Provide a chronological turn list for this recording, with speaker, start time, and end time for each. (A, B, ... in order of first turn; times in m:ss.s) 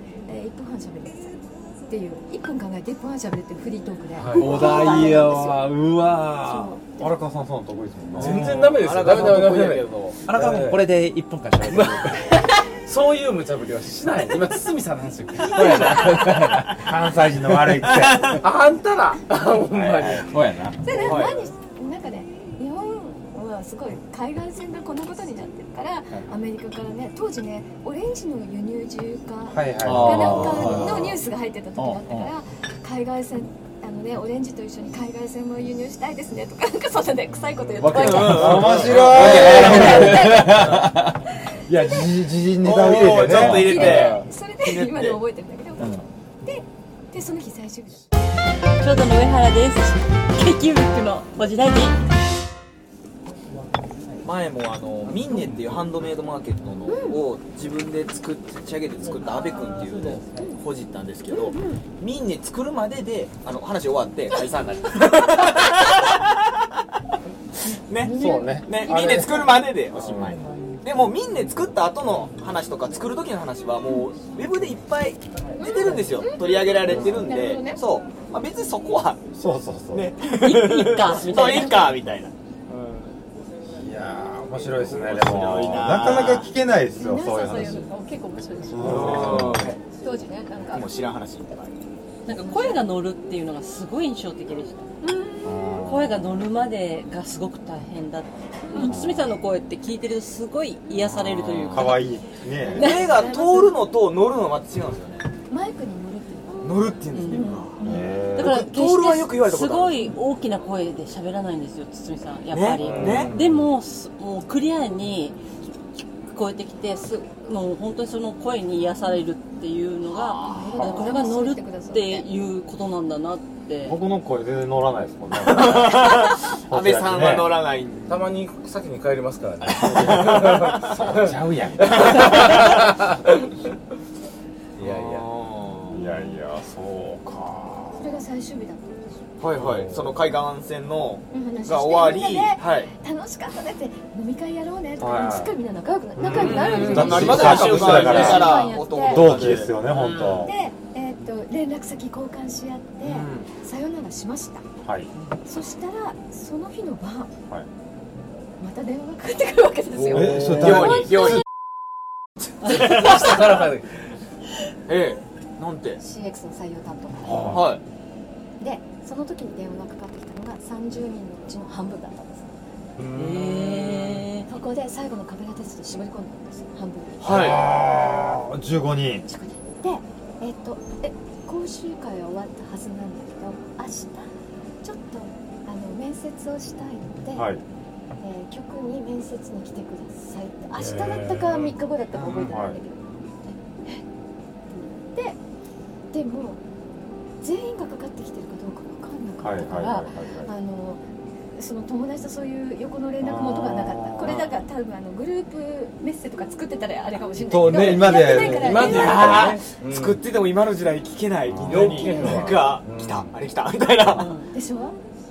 0:00.3-0:05.7 A
0:04.2-0:04.6 B
0:04.3-0:06.8 C
0:06.3-0:07.2 A
0:06.9-0:08.5 D
0:08.2-0:10.8 B
0:08.2-0:10.2 E
0:10.3-0:12.4 C
0:11.6-0:16.8 B
0:15.4-0:16.8 C
0:16.8-0:18.4 D
0:17.9-0:18.3 E
0:18.4-0:20.2 B
0:18.4-0:20.8 C
0:20.8-0:40.9 A
0:20.9-0:21.5 E
0:29.5-0:31.0 D
0:29.8-0:31.2 C
0:31.8-0:32.3 C
0:37.8-0:41.2 C
0:37.8-0:39.8 E
0:38.1-0:40.4 D
0:39.1-0:39.5 B
0:41.7-0:43.9 D
0:42.6-0:45.2 E
0:43.2-0:44.2 C
0:43.6-0:48.0 A
0:45.8-0:46.1 C
0:48.8-0:52.1 F
0:54.2-1:06.5 E
0:56.9-0:57.2 A
1:01.3-1:01.8 A
1:07.7-1:09.5 A
1:07.9-1:19.2 E
1:08.0-1:10.4 D
1:15.6-1:17.8 A
1:16.9-1:17.3 D
1:19.3-1:20.1 D
1:19.9-1:22.3 E
1:20.2-1:22.0 F
1:22.7-1:23.1 B
1:23.6-1:27.9 D
1:24.8-1:26.5 E
1:27.0-1:30.9 A
1:28.7-1:29.7 D
1:28.8-1:29.8 E
1:29.0-1:29.6 B
1:30.6-1:31.8 E
1:32.3-1:42.1 F
1:32.3-1:32.8 A
1:35.0-1:35.4 A
1:35.4-1:36.2 D
1:38.7-1:39.0 A
1:38.8-1:39.4 D
1:41.5-1:43.0 D
1:42.6-1:43.8 A
1:42.6-1:45.3 E
1:45.5-1:48.0 A
1:46.6-1:47.8 E
1:47.1-1:47.7 F
1:47.8-1:48.6 D
1:48.3-1:55.6 F
1:48.4-1:50.1 E
1:52.5-1:53.3 E
1:52.8-1:53.4 B
1:56.3-2:04.0 F
2:00.1-2:00.8 E
2:00.4-2:02.3 A
2:03.8-2:07.6 D
2:05.4-2:08.3 E
2:08.1-2:13.1 B
2:09.8-2:11.0 E
2:10.8-2:12.6 D
2:12.0-2:12.7 E
2:14.8-2:15.2 B
2:14.8-2:16.0 E
2:15.9-2:18.1 D
2:18.0-2:19.2 A
2:19.4-2:22.9 E
2:19.6-2:20.1 B
2:21.3-2:29.4 A
2:25.0-2:25.6 D
2:26.2-2:30.5 D
2:26.2-2:30.5 E
2:26.4-2:28.5 B
2:30.4-2:34.6 A
2:33.0-2:33.5 E
2:34.8-2:35.1 D
2:35.4-2:37.3 A
2:38.6-2:41.4 A
2:39.9-2:40.8 B
2:40.1-2:41.4 D
2:40.4-2:41.4 E
2:42.6-2:43.4 E
2:42.7-2:43.9 B
2:44.9-2:46.0 E
2:46.0-2:47.6 A
2:47.2-2:47.7 D
2:47.4-2:47.8 E
2:48.6-2:52.6 A
2:53.1-2:54.5 F
2:53.1-2:54.0 B
2:54.4-2:57.6 A
2:57.2-2:57.7 E
2:57.2-2:59.2 D
2:59.2-3:04.3 A
3:04.8-3:07.5 A
3:07.3-3:07.6 D
3:08.2-3:13.0 A
3:10.9-3:11.7 B
3:12.4-3:12.8 D
3:15.0-3:15.4 A
3:16.1-3:16.6 A
3:17.4-3:21.0 A
3:19.4-3:20.5 D
3:21.5-3:29.4 A
3:23.2-3:24.4 D
3:24.2-3:24.5 E
3:27.4-3:29.5 D
3:27.8-3:30.2 B
3:28.8-3:34.3 E
3:31.5-3:32.4 D
3:31.6-3:33.2 B
3:34.1-3:34.4 F
3:34.5-3:35.0 A